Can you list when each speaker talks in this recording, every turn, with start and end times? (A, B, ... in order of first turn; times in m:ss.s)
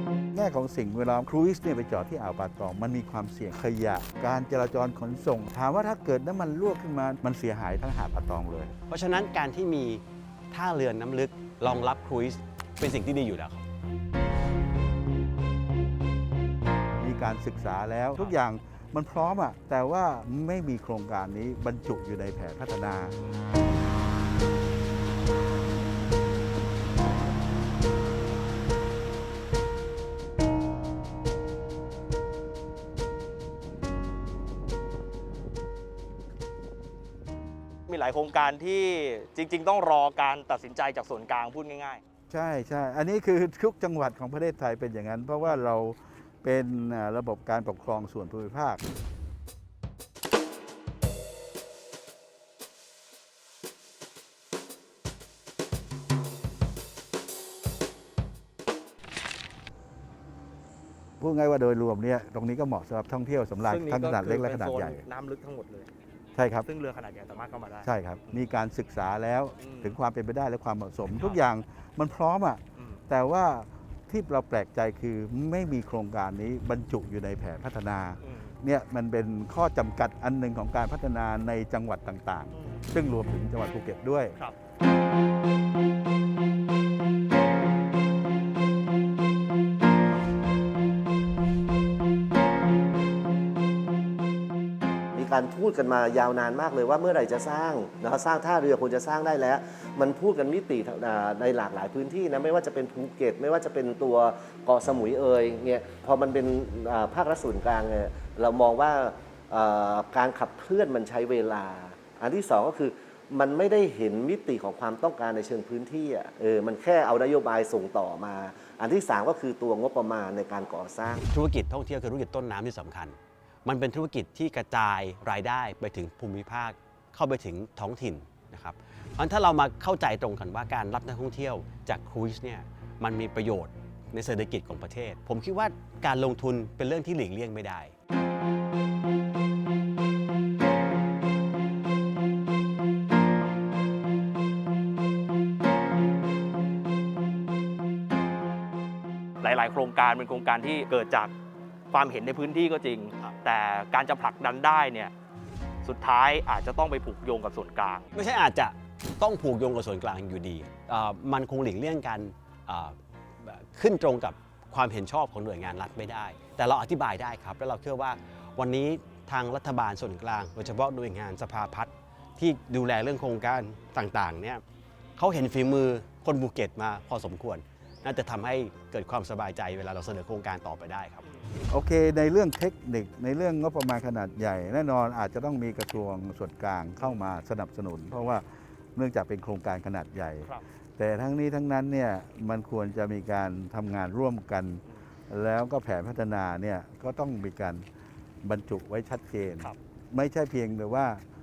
0:00.3-0:08.7 A
0:08.9-0:13.6 B
0:17.0-0:23.2 A
0:37.9-0:42.0 C
0:42.3-0:48.8 A
1:01.2-1:05.0 A
1:03.6-1:05.9 C
1:06.4-1:06.7 A
1:06.6-1:07.9 C
1:07.8-1:24.4 A
1:09.6-1:10.0 C
1:18.2-1:18.5 C
1:22.5-1:22.8 C
1:35.2-2:01.3 D
2:01.3-2:17.9 B
2:29.4-2:31.3 C
2:31.9-2:35.1 C
2:35.8-2:38.1 C
2:38.1-2:54.6 B
2:55.2-3:01.2 B
3:01.7-3:17.8 A
3:18.4-3:21.2 A